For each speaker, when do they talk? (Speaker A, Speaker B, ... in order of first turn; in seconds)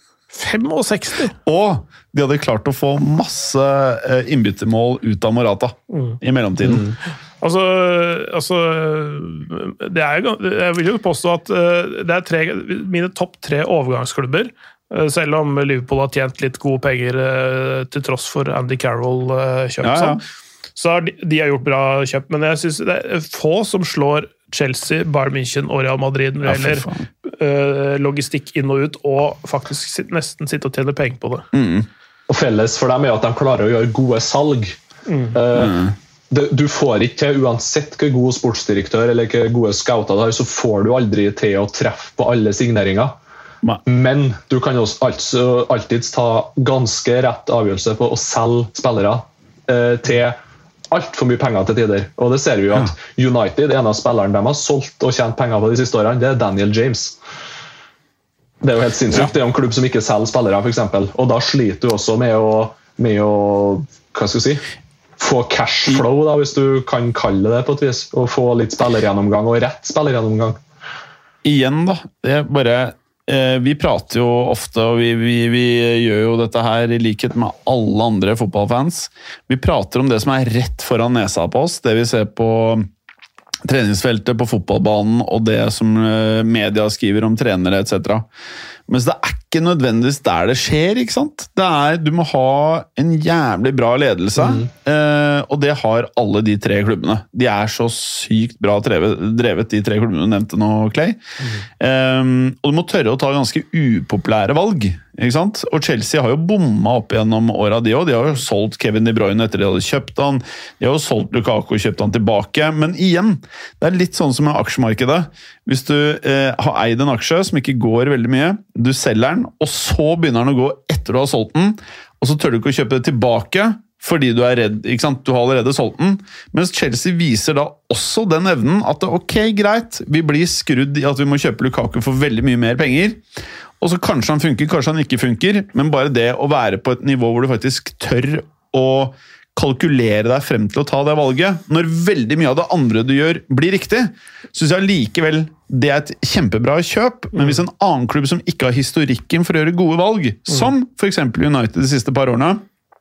Speaker A: 0.3-1.4, 5.9-6.2, 7.4-20.2, 20.8-31.5, 35.1-35.4, 147.3-147.6
Speaker B: 1.4-6.9, 19.8-20.2, 26.4-27.1, 31.5-31.9, 35.5-36.0, 71.4-82.9, 83.6-88.3, 88.9-101.2, 101.8-133.2, 133.8-152.6
Speaker C: 6.6-7.0, 32.3-34.8, 35.3-43.2, 43.9-50.4, 50.9-57.2, 58.6-64.7, 65.2-70.6, 94.4-94.7